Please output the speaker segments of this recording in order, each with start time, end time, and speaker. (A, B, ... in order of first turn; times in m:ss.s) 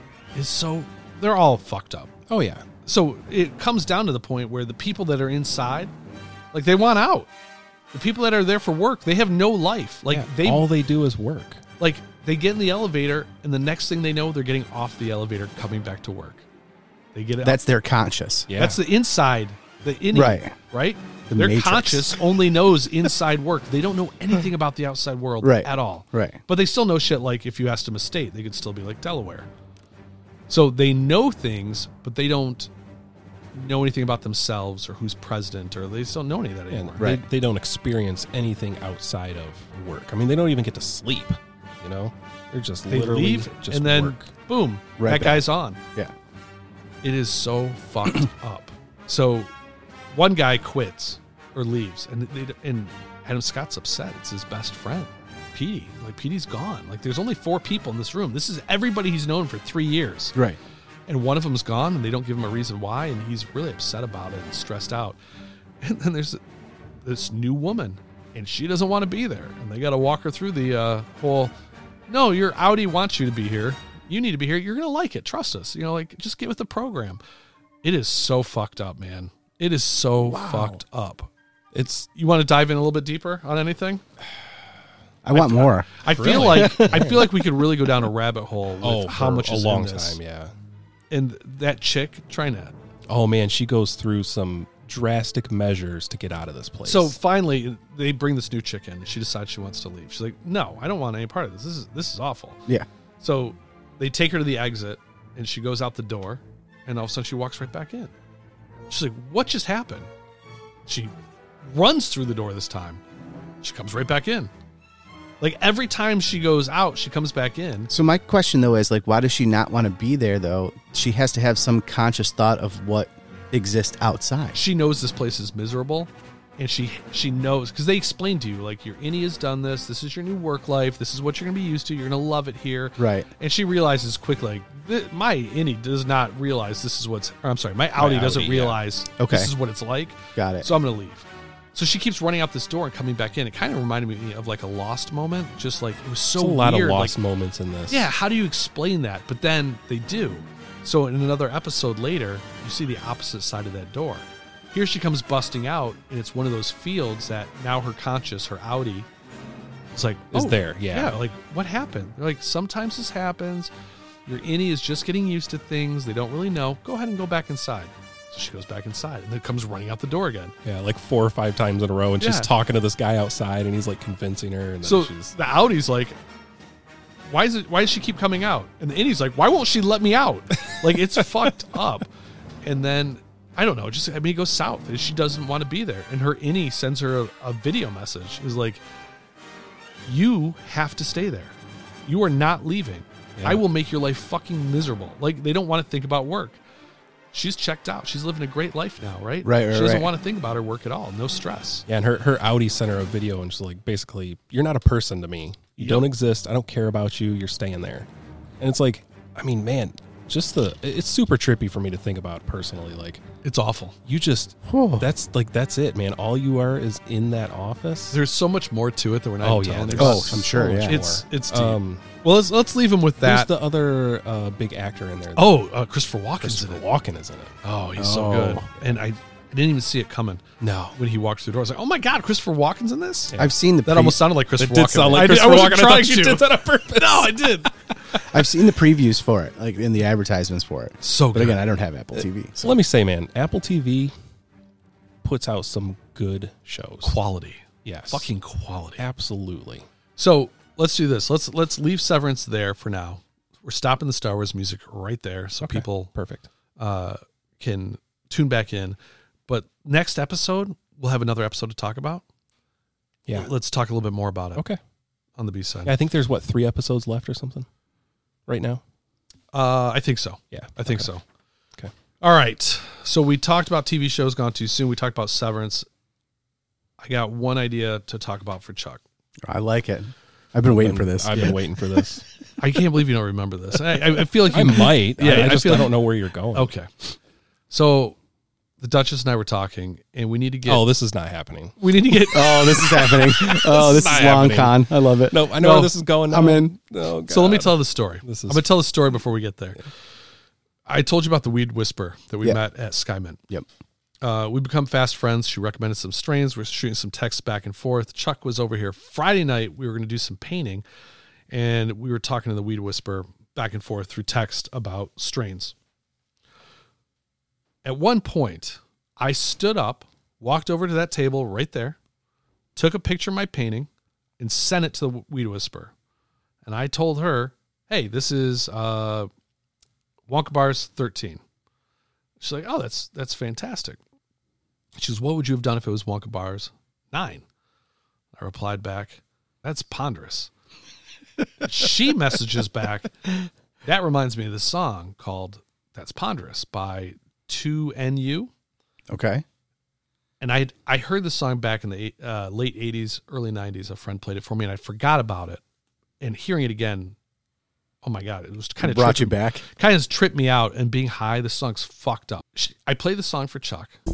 0:00.3-0:02.1 A
0:02.3-0:02.6 B
0:02.8-0:05.9 A
0:06.5-0:07.3 A
0:07.9-0:10.6 A
0:10.1-0:11.6 B
0:11.8-0:16.4 A
0:17.1-0:17.6 A
0:17.4-0:18.5 C
0:18.5-0:18.8 B
0:18.5-0:29.5 A
0:20.1-0:20.6 C
0:21.3-0:22.1 C
0:25.4-0:26.4 C
0:30.5-0:32.7 A
0:33.5-0:37.1 A
0:36.7-0:44.3 B
0:37.0-0:37.2 C
0:42.9-0:45.8 A
0:45.0-0:46.1 C
0:47.0-0:49.5 A
0:50.1-1:00.4 A
1:01.1-1:05.2 A
1:05.8-1:06.4 A
1:07.0-1:11.5 A
1:12.1-1:17.2 A
1:17.8-1:21.3 A
1:20.2-1:20.8 B
1:21.7-1:22.1 B
1:22.1-1:24.0 A
1:25.2-1:27.3 C
1:25.3-1:30.2 A
1:26.1-1:27.3 B
1:28.8-1:30.5 B
1:31.1-1:32.7 A
1:33.1-1:37.2 B
1:36.8-1:42.6 A
1:43.2-1:48.1 A
1:48.9-1:50.1 A
1:50.9-1:53.0 A
1:53.6-1:54.5 A
1:55.4-1:57.9 A
1:57.9-2:04.6 C
2:04.5-2:27.2 A
2:13.0-2:13.3 C
2:18.0-2:18.8 B
2:19.2-2:19.5 C
2:20.4-2:20.7 C
2:26.4-2:28.1 B
2:27.9-2:39.1 A
2:39.9-2:43.7 A
2:40.3-2:41.2 B
2:44.2-2:50.5 A
2:50.6-2:55.3 B
2:52.2-2:52.5 A
2:54.8-2:56.2 A
2:57.3-3:02.1 A
3:02.6-3:08.8 A
3:10.0-3:11.5 A
3:12.0-3:16.6 A
3:13.4-3:13.6 B
3:17.3-3:21.8 A
3:19.4-3:20.1 C
3:21.9-3:28.1 B
3:25.8-3:26.0 A
3:28.6-3:33.2 B
3:33.4-3:34.0 A
3:34.0-3:38.2 B
3:34.6-3:35.1 C
3:38.1-3:43.5 A
3:39.4-3:42.0 B
3:40.0-3:41.0 C
3:43.2-3:45.6 B
3:45.4-3:46.8 A
3:46.4-3:47.5 B
3:47.6-3:50.4 A
3:48.0-3:48.7 C
3:50.6-3:51.0 B
3:51.0-3:53.3 A
3:53.4-3:54.2 C
3:53.8-3:57.7 A
3:54.6-3:58.2 B
3:58.3-4:02.8 C
4:01.0-4:01.6 A
4:02.2-4:04.1 B
4:05.2-4:07.2 B
4:07.0-4:09.0 A
4:07.8-4:08.3 B
4:09.0-4:09.8 B
4:10.2-4:16.1 A
4:15.6-4:16.5 B
4:16.8-4:19.0 A
4:19.5-4:22.2 A
4:23.3-4:24.6 A
4:25.4-4:25.9 A
4:25.8-4:27.7 B
4:28.5-4:28.8 B
4:29.5-4:31.2 A
4:30.5-4:31.1 B
4:32.2-4:35.9 A
4:37.0-4:39.0 A
4:39.4-4:41.5 C
4:40.8-4:42.2 B
4:42.6-4:46.0 A
4:44.4-4:46.7 B
4:46.5-4:46.9 A
4:47.7-4:48.2 A
4:48.8-4:50.8 A
4:50.6-4:51.7 B
4:51.8-4:54.5 A
4:52.3-4:55.4 C
4:53.8-4:54.8 B
4:55.3-4:58.7 B
4:55.6-4:55.9 A
4:56.3-4:56.8 C
4:57.3-4:59.8 A
5:00.9-5:03.4 A
5:04.2-5:10.8 A
5:11.5-5:15.7 A
5:17.8-5:22.0 A
5:22.8-5:25.9 A
5:26.6-5:29.3 A
5:30.3-5:31.4 A
5:32.4-5:34.0 A
5:35.0-5:37.4 A
5:38.4-5:40.5 A
5:41.6-5:43.1 A
5:43.8-5:48.5 A
5:49.1-5:49.4 C
5:50.4-5:55.6 A
5:56.2-5:57.2 A
5:58.0-6:04.0 A
5:58.8-5:59.6 C